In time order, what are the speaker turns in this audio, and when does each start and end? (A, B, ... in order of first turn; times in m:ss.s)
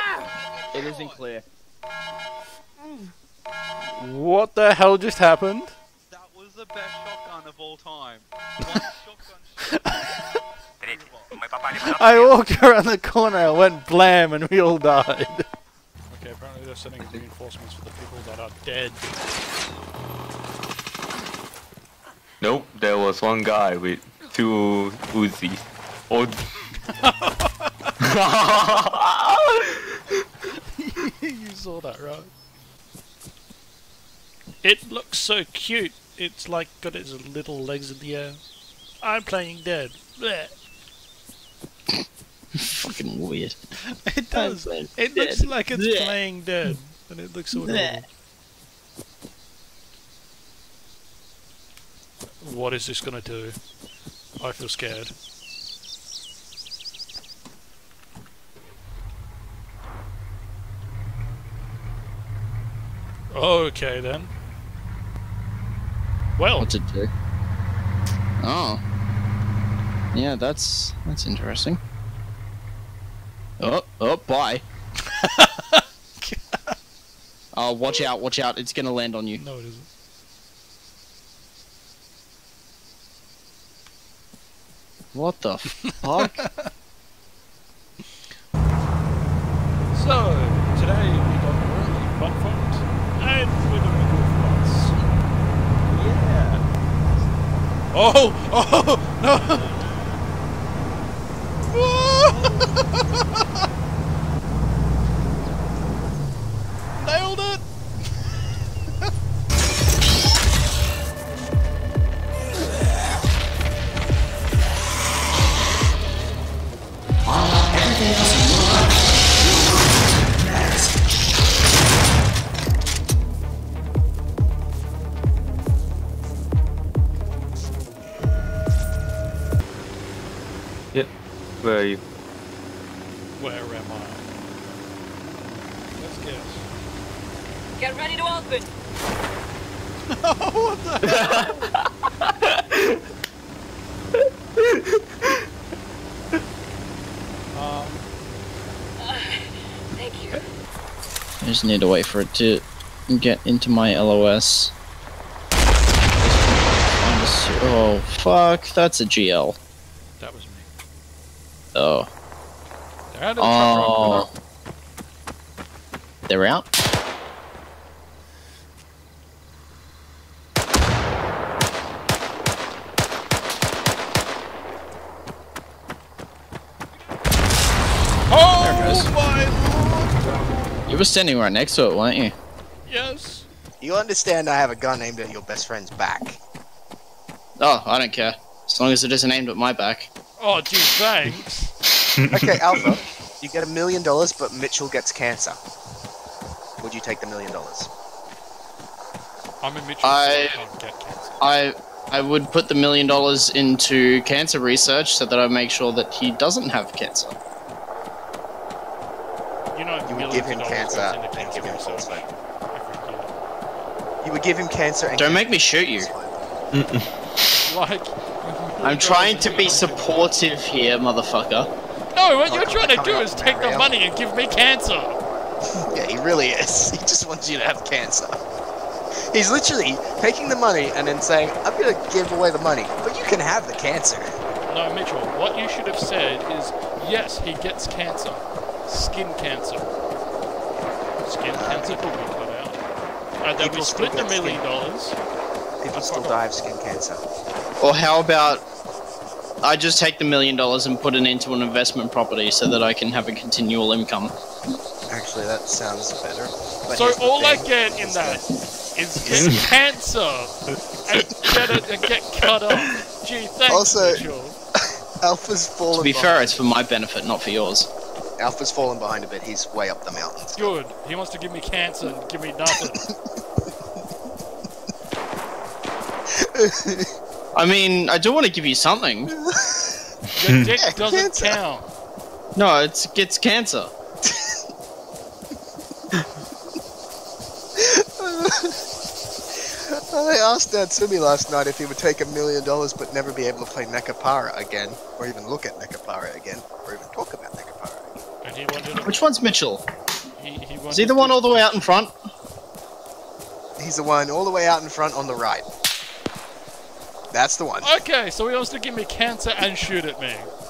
0:00.7-0:01.4 A
0:03.8-0:05.8 B
0:06.1-0:09.8 C
0:09.8-0:10.3 B
0:10.8-0:11.3 C
0:11.7-0:15.4 B
0:16.1-0:19.1 B
0:22.4-0:26.4 D
0:26.7-0:27.9 B
0:28.0-0:29.6 D
0:30.8-0:32.3 B
0:34.6-0:38.4 B
0:39.0-0:40.6 B
0:42.7-0:43.6 A
0:43.9-0:48.0 B
0:44.3-0:46.8 A
0:47.5-0:48.0 A
0:52.4-0:53.6 B
0:54.4-0:55.1 B
1:03.3-1:04.3 B
1:06.4-1:06.7 B
1:06.6-1:07.1 A
1:08.4-1:08.8 A
1:10.1-1:11.8 A
1:13.6-1:14.6 A
1:15.2-1:16.7 B
1:17.5-1:19.4 A
1:19.4-1:19.9 B
1:25.1-1:26.4 A
1:25.8-1:26.6 B
1:29.9-1:35.0 B
1:37.9-1:39.7 B
1:41.7-1:43.5 B
1:47.0-1:47.6 B
2:11.6-2:12.0 D
2:13.4-2:14.2 B
2:15.9-2:16.7 B
2:17.8-2:18.7 E
2:20.1-2:21.7 B
2:21.1-2:21.6 D
2:22.2-2:22.9 D
2:24.6-2:25.3 D
2:27.5-2:28.1 B
2:29.0-2:30.4 E
2:31.4-2:34.7 A
2:36.2-2:39.6 A
2:40.2-2:40.7 B
2:41.7-2:42.1 A
2:43.1-2:44.3 B
2:43.4-2:44.3 A
2:46.3-2:46.7 A
2:58.3-3:00.6 B
2:58.6-2:59.1 A
3:00.9-3:02.3 A
3:02.8-3:03.4 B
3:03.8-3:06.4 F
3:07.6-3:10.1 A
3:10.4-3:11.7 B
3:12.3-3:15.6 F
3:16.8-3:17.9 F
3:19.6-3:21.4 B
3:20.0-3:20.6 A
3:21.4-3:27.4 A
3:29.7-3:33.9 B
3:30.0-3:32.3 F
3:34.2-3:36.6 F
3:35.1-3:36.1 A
3:36.7-3:37.1 D
3:37.6-3:40.3 B
3:38.8-3:41.7 A
3:42.1-3:45.2 B
3:42.4-3:43.9 F
3:45.8-3:48.4 F
3:49.3-3:54.3 F
3:54.6-4:00.0 B
4:01.2-4:02.8 B
4:01.5-4:02.1 F
4:03.4-4:05.2 B
4:03.6-4:04.6 F
4:05.8-4:07.2 F
4:05.9-4:06.4 B
4:07.8-4:08.6 A
4:09.6-4:14.3 A
4:15.1-4:18.4 F
4:16.9-4:24.6 B
4:19.2-4:19.5 F
4:23.7-4:24.2 F
4:25.2-4:26.6 F
4:25.9-4:27.9 A
4:28.4-4:30.8 F
4:30.6-4:33.0 B
4:32.7-4:33.1 F
4:36.3-4:37.1 F
4:37.5-4:39.3 A
4:39.3-4:40.1 F
4:40.4-4:41.9 B
4:40.4-4:40.7 D
4:40.7-4:41.6 F
4:42.5-4:43.9 A
4:47.8-4:48.8 F
4:49.6-4:58.2 F
4:58.4-4:59.2 B
4:59.0-4:59.8 A
5:00.4-5:01.9 B
5:00.9-5:02.1 A
5:03.8-5:05.6 F
5:07.3-5:08.0 F
5:07.8-5:10.5 B